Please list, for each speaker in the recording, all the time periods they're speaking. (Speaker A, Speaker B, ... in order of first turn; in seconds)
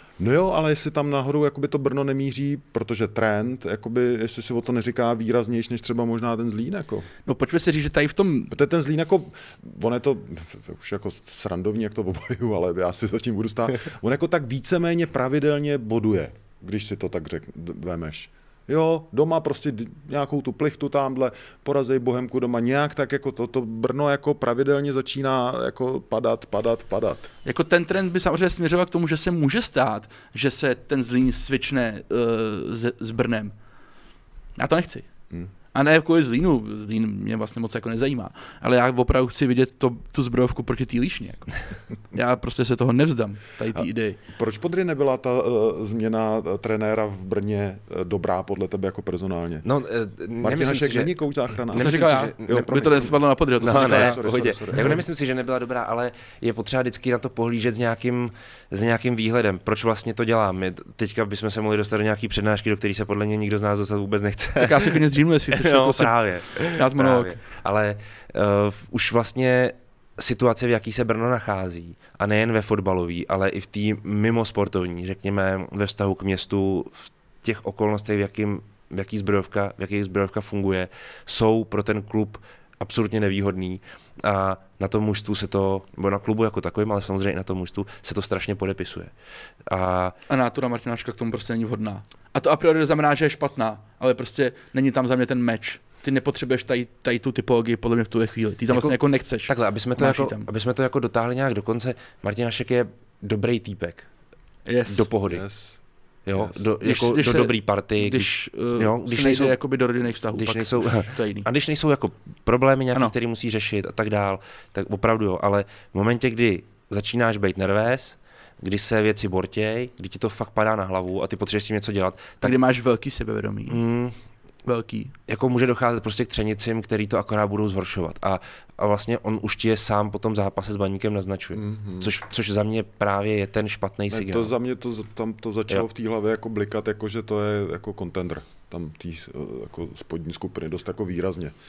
Speaker A: 0.2-7.1, 8.5-27.3, 43.7-49.6, 50.4-55.0, 105.0-105.8, 106.3-106.6, 131.5-132.1, 134.1-141.5
Speaker B: 7.2-8.5, 27.4-33.5, 34.5-35.1, 35.7-41.6, 42.1-44.2, 51.7-54.2, 64.6-67.4, 90.3-100.5, 104.7-105.1, 106.8-111.5, 122.4-123.8, 124.6-125.1
Speaker C: 49.6-89.1, 89.7-90.1, 98.7-104.1, 104.9-105.5, 106.2-109.6, 110.3-122.6, 123.7-124.1, 125.3-134.5